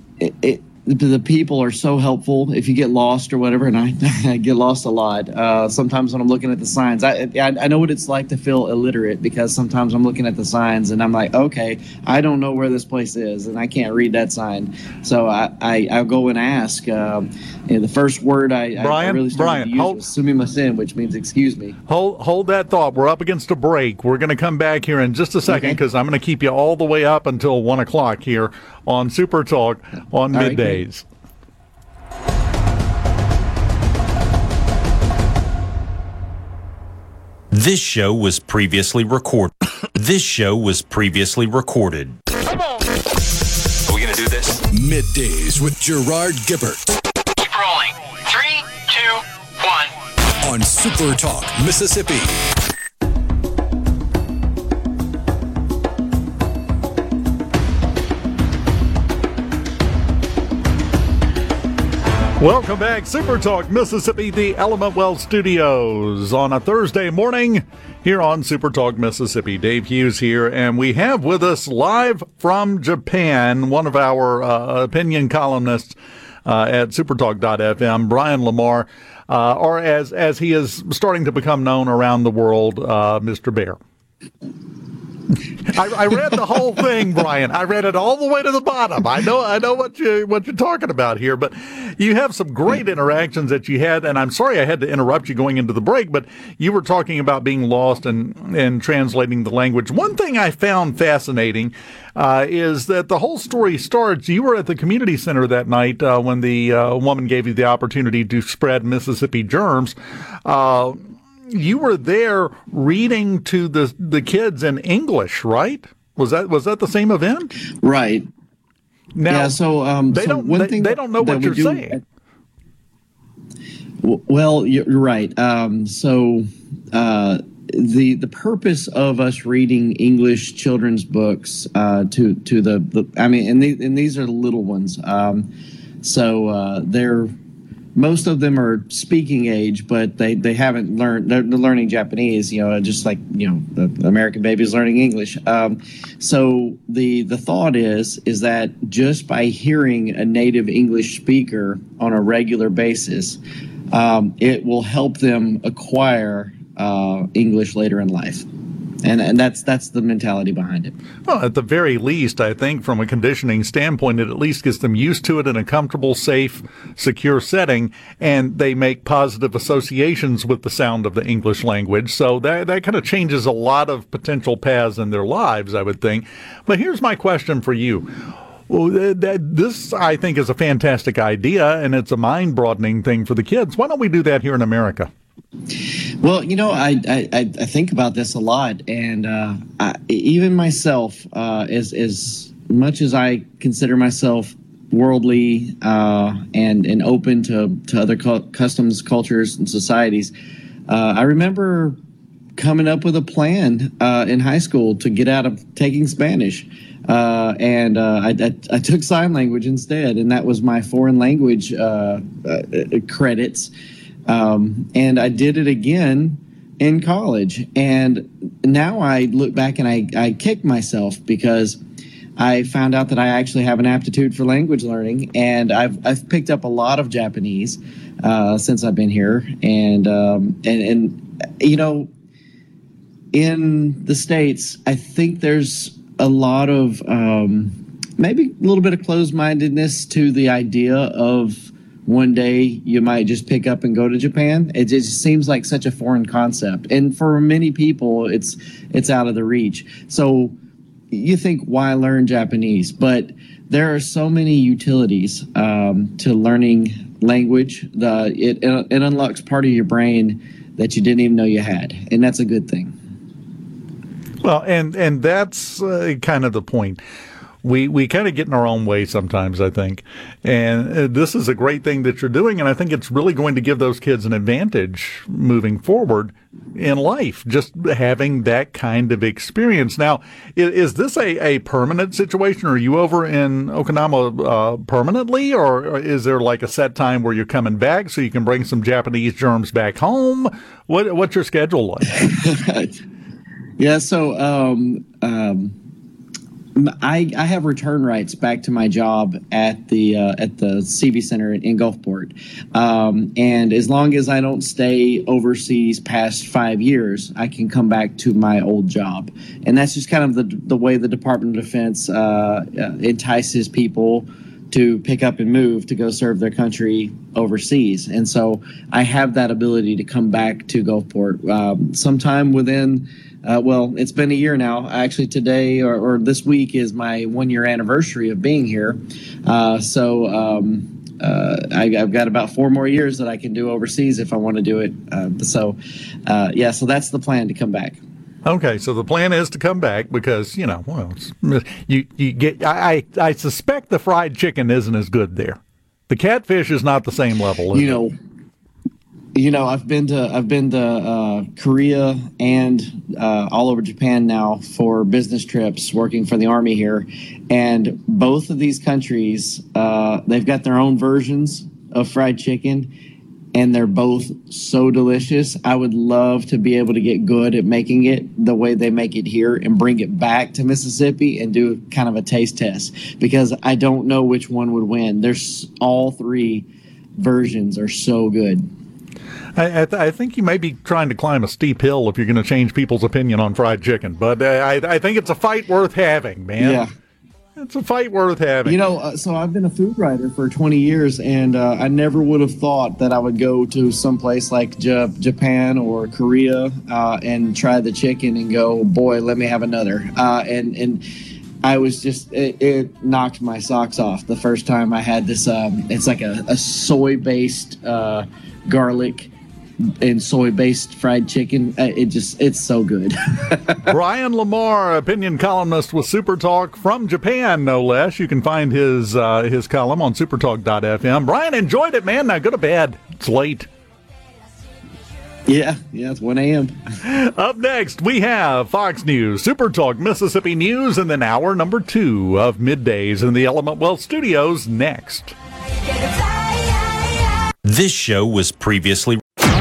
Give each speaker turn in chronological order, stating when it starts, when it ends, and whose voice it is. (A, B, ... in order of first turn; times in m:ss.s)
0:00.2-0:21.8 A
0:18.8-0:20.0 B
0:21.9-0:31.0 B
0:25.5-0:25.8 A
0:30.3-0:30.8 A
0:37.5-0:42.2 C
0:43.9-0:47.0 D
0:44.1-0:44.4 E
0:47.4-0:49.9 E
0:50.4-0:52.4 D
1:02.4-1:23.8 B
1:25.7-1:57.5 B
1:57.8-1:58.3 A
1:59.2-1:59.6 B
1:59.2-2:02.0 A
2:00.1-2:02.0 B
2:04.0-2:15.5 A
2:16.0-2:17.3 A
2:18.0-2:33.4 A
2:33.9-2:38.5 A
2:39.0-2:40.9 A
2:41.3-2:58.1 B
2:58.7-3:05.1 B
3:06.2-3:20.3 A
3:20.9-3:22.0 A
3:22.6-3:33.7 A
3:34.3-3:41.8 A
3:42.4-3:52.1 A
3:53.3-4:10.5 A
4:11.1-4:22.9 A
4:24.4-4:27.0 B
4:27.6-4:52.1 B
4:52.1-4:52.9 A
4:53.8-4:55.8 A
4:56.8-5:38.0 A
5:38.4-5:48.0 B
5:47.7-5:48.2 A
5:49.3-6:02.9 A
6:03.5-6:16.6 A
6:17.2-6:18.7 A
6:19.6-6:26.8 B
6:26.6-6:26.9 A
6:27.6-6:28.8 B
6:28.6-6:41.0 A
6:41.6-6:49.3 A
6:50.0-6:53.9 A
6:53.9-7:03.7 B
7:05.4-7:06.8 A
7:07.0-7:15.3 B
7:17.6-7:19.2 C